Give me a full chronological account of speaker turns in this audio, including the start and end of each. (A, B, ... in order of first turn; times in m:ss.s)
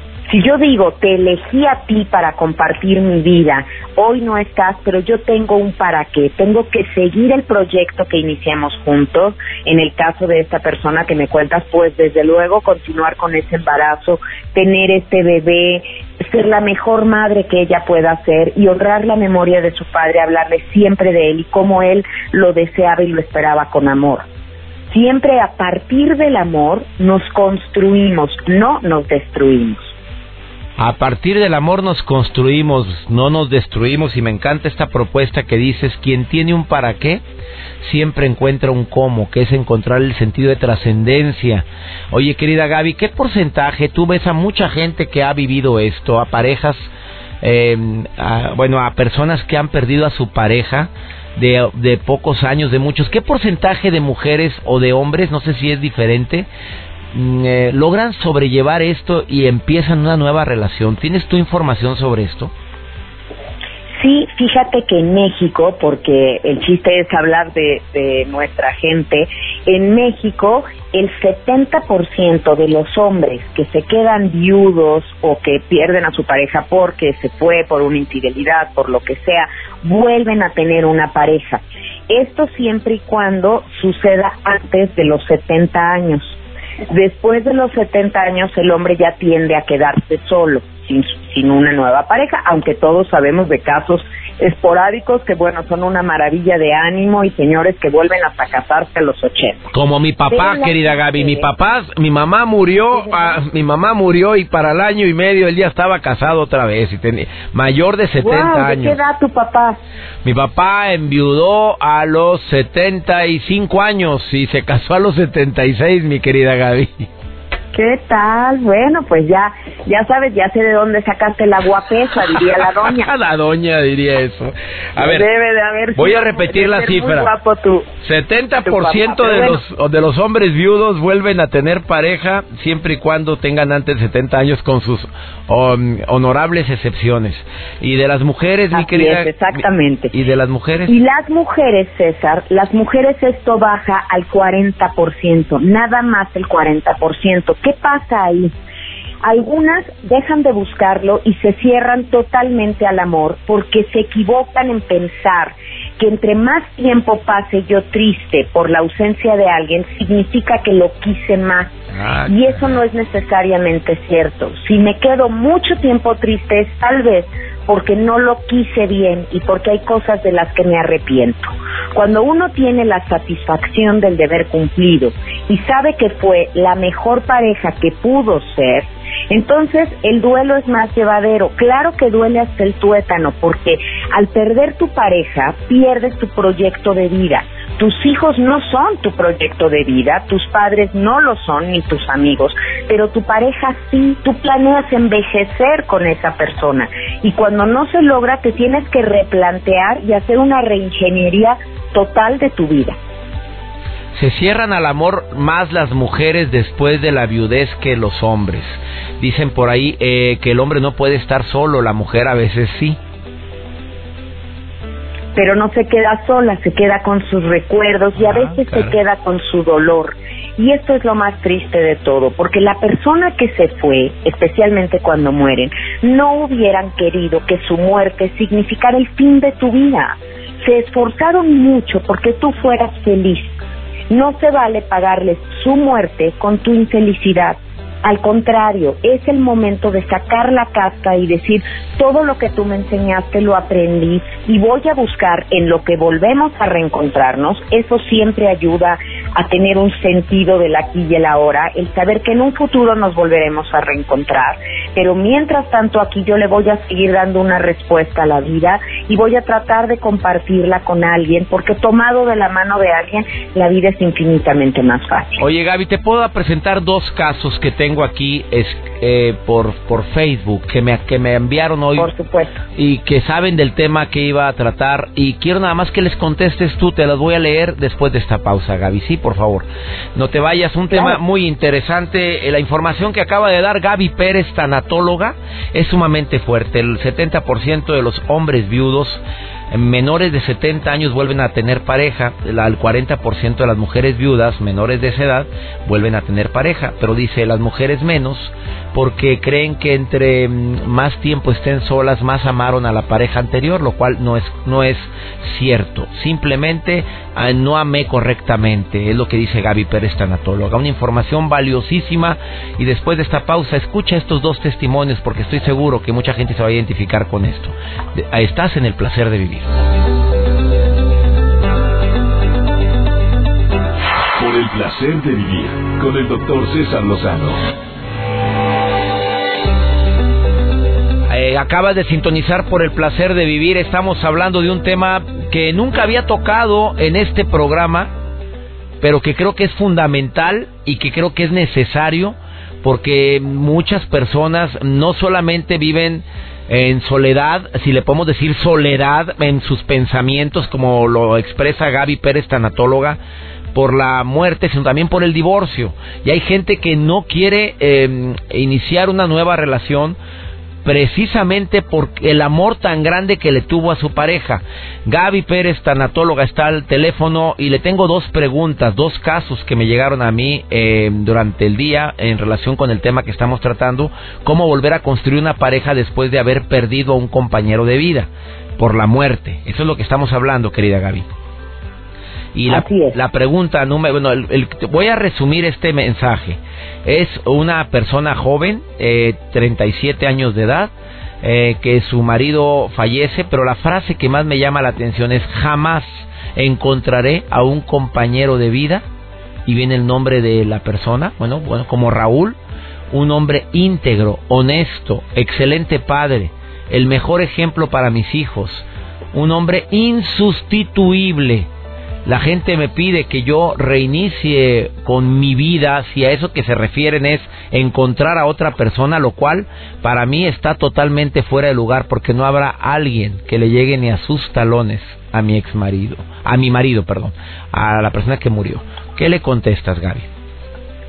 0:00.3-0:24.2 A
0:24.9-0:29.9 A
0:30.8-0:37.2 B
0:37.8-0:56.5 B
0:57.1-1:02.5 B
1:04.0-1:26.4 A
1:26.9-1:39.7 A
1:39.7-1:49.0 B
1:40.3-1:41.5 A
1:43.0-1:43.4 A
1:48.2-1:49.8 A
1:50.2-1:57.1 B
1:57.7-2:03.0 A
2:02.8-2:05.2 B
2:05.0-2:07.9 A
2:05.9-2:07.3 B
2:08.0-2:19.6 B
2:08.6-2:09.6 A
2:18.7-2:20.1 A
2:20.1-2:20.9 B
2:20.9-2:28.5 A
2:29.2-3:23.0 A
2:41.9-2:42.8 B
3:24.1-3:33.0 B
3:35.3-4:25.4 A
3:38.2-3:38.9 B
4:25.4-4:32.1 B
4:32.0-4:32.6 A
4:32.8-5:19.7 B
4:40.9-4:41.2 A
5:24.4-5:27.6 C
5:31.3-5:38.1 B
5:39.0-5:53.2 B
5:53.7-6:00.2 B
6:00.8-6:21.2 B
6:22.5-6:30.9 B
6:22.7-6:23.2 A
6:31.4-6:39.0 B
6:39.6-6:42.6 B
6:43.1-6:51.7 B
6:52.2-7:10.2 B